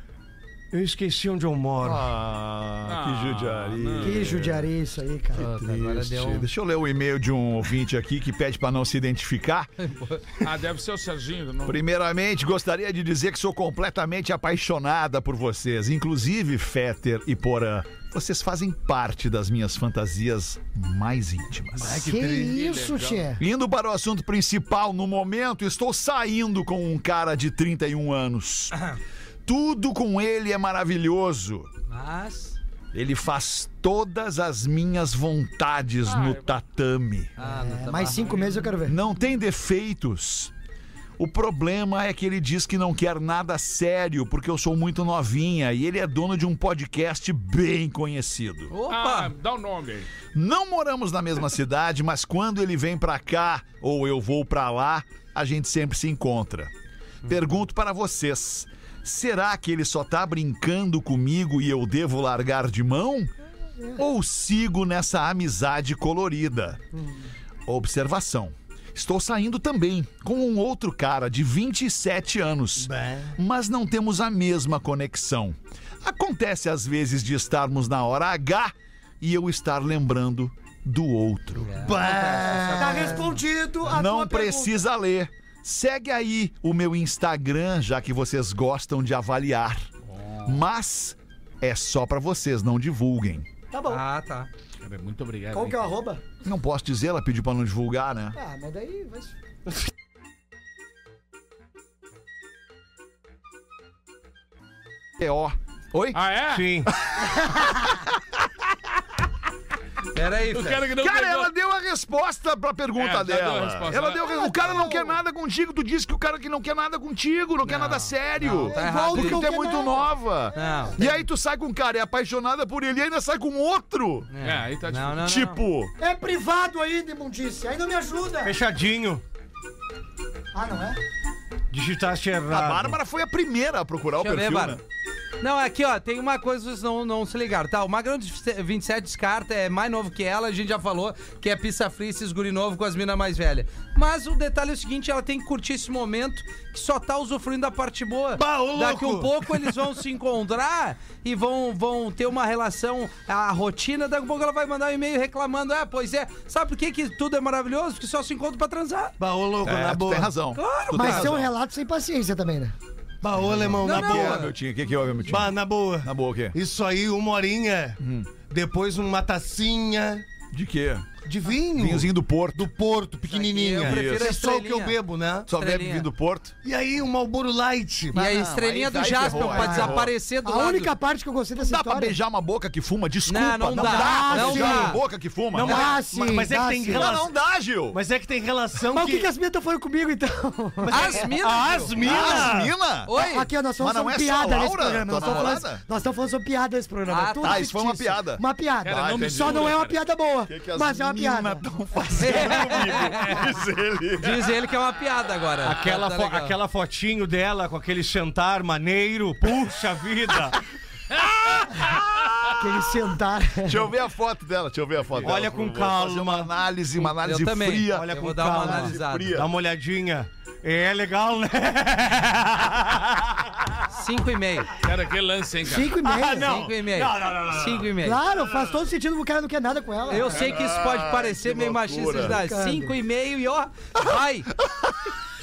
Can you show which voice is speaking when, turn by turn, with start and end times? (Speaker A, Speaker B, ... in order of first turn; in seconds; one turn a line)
Speaker A: 0.7-2.1
Speaker B: 1.8-4.7
Speaker C: 2.9-4.5
Speaker D: 4.0-5.5
Speaker E: 5.3-6.5
Speaker B: 5.4-9.7
Speaker E: 9.8-10.2
Speaker C: 10.4-11.8
Speaker B: 11.7-22.1
Speaker D: 21.8-23.4
Speaker A: 21.8-22.6
Speaker C: 22.3-23.2
Speaker B: 23.4-28.8
Speaker B: 29.5-31.7
Speaker E: 31.9-32.6
Speaker B: 32.9-37.3
Speaker C: 36.1-36.4
Speaker E: 37.4-38.8
Speaker D: 37.4-39.0
Speaker B: 38.9-40.5
Speaker B: 41.2-48.7
Speaker E: 48.7-49.3
Speaker C: 48.9-50.1
Speaker B: 50.3-56.7
Speaker B: 57.2-63.3
Speaker B: 64.0-66.8
Speaker D: 67.0-67.3
Speaker B: 67.7-81.8
Speaker A: 72.8-73.4
Speaker E: 81.6-83.4
Speaker A: 81.8-83.2
Speaker D: 81.9-84.8
Speaker B: 83.8-89.9
Speaker C: 90.2-90.5
Speaker B: 90.5-93.5
Speaker D: 93.7-94.0
Speaker E: 93.9-94.5
Speaker C: 94.8-95.9
Speaker D: 95.5-96.2
Speaker B: 96.4-98.4
Speaker D: 98.3-99.3
Speaker B: 105.2-106.2
Speaker C: 106.1-106.7
Speaker A: 106.5-106.9
Speaker B: 107.1-108.1
Speaker E: 110.1-110.8
Speaker C: 110.5-111.5
Speaker B: 110.9-124.3
Speaker C: 113.0-114.3
Speaker D: 114.3-115.2
Speaker E: 117.6-119.5
Speaker D: 118.6-121.2
Speaker E: 120.5-121.0
Speaker E: 124.3-125.6
Speaker C: 124.4-125.2
Speaker B: 125.2-125.9
Speaker D: 126.0-128.6
Speaker A: 128.4-129.2
Speaker D: 130.5-131.0
Speaker A: 131.7-133.0
Speaker B: 132.5-134.8
Speaker E: 134.2-134.8
Speaker E: 135.4-159.2
Speaker A: 148.3-149.8
Speaker A: 159.2-160.3
Speaker B: 159.6-161.5
Speaker E: 160.5-161.3
Speaker D: 160.9-162.8
Speaker A: 163.2-164.5
Speaker B: 163.4-166.6
Speaker E: 163.8-164.5
Speaker A: 165.3-168.0
Speaker B: 168.0-168.3
Speaker A: 168.5-170.2
Speaker B: 170.5-171.1
Speaker A: 171.3-175.5
Speaker B: 171.7-172.7
Speaker E: 173.3-175.0
Speaker B: 173.8-174.3
Speaker B: 175.5-176.6
Speaker E: 175.5-176.1
Speaker A: 176.6-178.3
Speaker E: 178.1-180.9
Speaker B: 178.2-180.1
Speaker D: 179.3-182.2
Speaker B: 181.6-185.9
Speaker E: 183.3-185.0
Speaker D: 183.8-184.9
Speaker A: 185.5-187.3
Speaker D: 185.6-187.1
Speaker B: 186.9-188.0
Speaker A: 187.9-189.3
Speaker D: 188.9-191.3
Speaker A: 190.8-192.7
Speaker E: 190.9-192.5
Speaker B: 192.0-193.1
Speaker E: 193.1-193.5
Speaker D: 193.1-201.7
Speaker B: 193.8-195.8
Speaker E: 195.2-195.5
Speaker E: 197.1-197.7
Speaker B: 197.4-199.8
Speaker C: 198.8-200.0
Speaker B: 200.5-204.6
Speaker E: 202.2-203.4
Speaker D: 202.3-202.6
Speaker E: 204.2-206.6
Speaker A: 205.6-210.6
Speaker B: 211.2-212.6
Speaker D: 212.6-213.9
Speaker B: 213.6-219.5
Speaker A: 215.2-216.5
Speaker E: 217.0-219.4
Speaker A: 217.9-223.1
Speaker E: 223.9-224.7
Speaker C: 224.8-226.0
Speaker D: 225.7-226.7
Speaker A: 226.1-227.8
Speaker E: 226.3-228.2
Speaker D: 228.0-230.4
Speaker E: 230.1-234.5
Speaker B: 230.3-232.4
Speaker D: 232.2-232.9
Speaker B: 234.6-234.9